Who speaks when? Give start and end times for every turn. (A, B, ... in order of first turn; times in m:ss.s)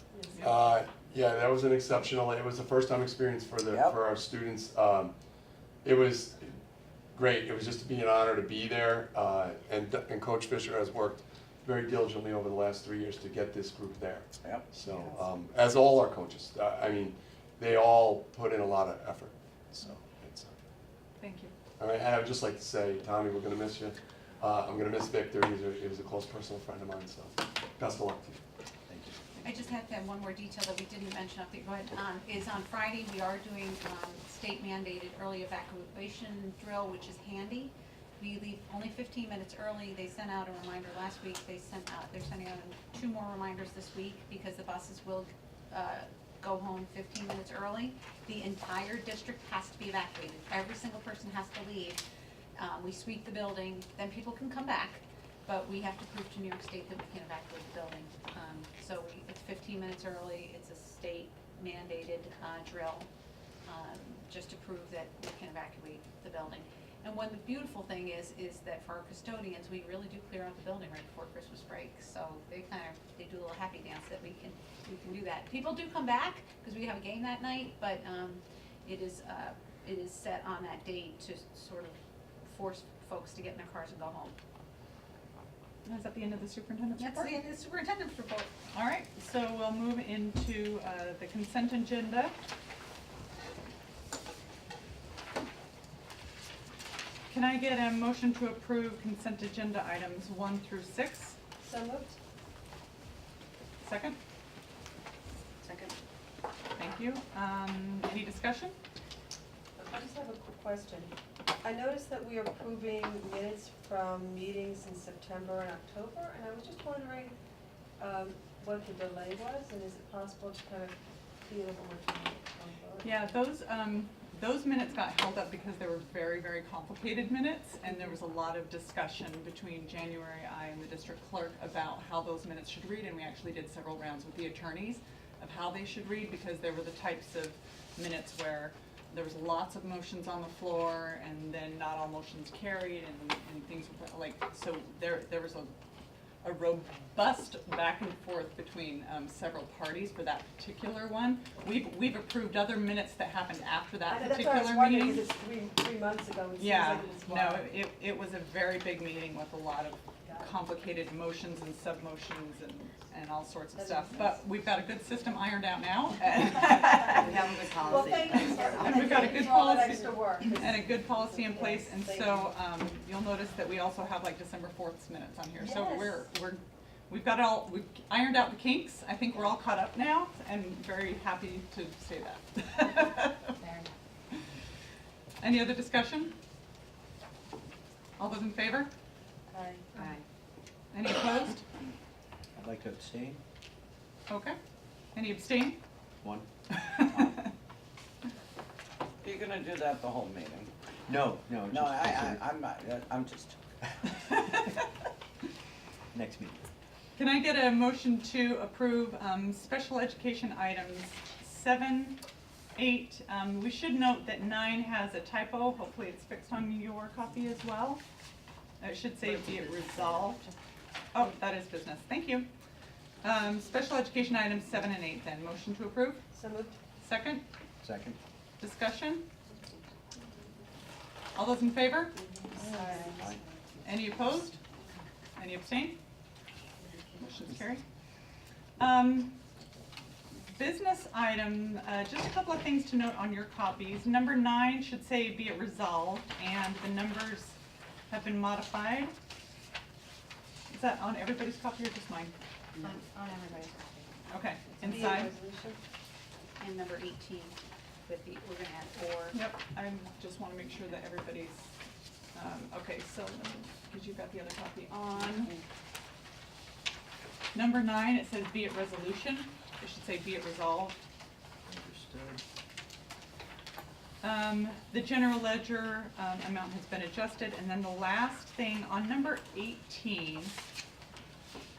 0:00.4-0:05.1 A
0:03.7-0:04.0 B
0:05.8-0:06.5 A
0:07.1-0:20.5 A
0:21.2-0:21.5 C
0:21.8-0:28.4 A
0:28.9-0:29.3 D
0:29.4-0:52.0 E
0:52.6-1:03.1 E
1:03.6-1:24.3 E
1:25.8-1:27.4 C
1:27.0-1:28.5 E
1:28.7-1:32.3 C
1:37.3-1:41.4 C
1:41.6-1:42.2 F
1:43.8-1:44.2 C
1:45.6-1:45.9 E
1:46.8-1:48.8 C
1:49.8-1:57.4 F
1:58.0-2:03.3 F
2:03.0-2:25.7 C
2:26.4-2:35.3 C
2:34.1-2:37.7 F
2:36.6-2:47.3 C
2:43.7-2:44.4 F
2:46.2-2:49.3 B
2:46.8-2:52.6 F
2:48.0-3:03.5 C
2:55.6-2:56.2 F
3:03.6-3:03.9 E
3:05.4-3:06.3 C
3:08.2-3:08.9 C
3:09.5-3:09.9 F
3:10.0-3:10.2 E
3:10.9-3:11.6 C
3:12.5-3:13.4 D
3:14.3-3:14.6 C
3:15.1-3:15.8 C
3:16.2-3:17.5 D
3:16.7-3:17.5 C
3:19.2-3:20.7 B
3:21.1-3:22.4 D
3:21.7-3:23.6 B
3:24.1-3:24.9 C
3:26.1-3:26.7 D
3:27.2-3:32.2 C
3:32.8-3:38.0 C
3:38.8-3:40.5 C
3:41.1-3:42.5 C
3:43.2-3:46.2 C
3:46.3-3:46.8 F
3:47.0-3:47.4 C
3:47.8-3:48.2 D
3:48.6-3:49.2 C
3:51.3-3:52.2 C
3:52.1-3:53.5 F
3:53.8-3:54.6 C
3:55.4-3:56.0 C
3:57.2-3:57.8 C
3:58.8-3:59.4 C
4:00.5-4:07.6 C
4:08.1-4:09.1 C
4:10.7-4:12.3 C
4:12.8-4:14.2 E
4:14.3-4:15.3 C
4:14.8-4:15.8 F
4:16.6-4:19.4 E
4:19.3-4:21.7 C
4:22.3-4:25.5 C
4:25.2-4:25.6 E
4:27.5-4:31.0 C
4:31.6-4:32.4 D
4:34.2-4:40.6 C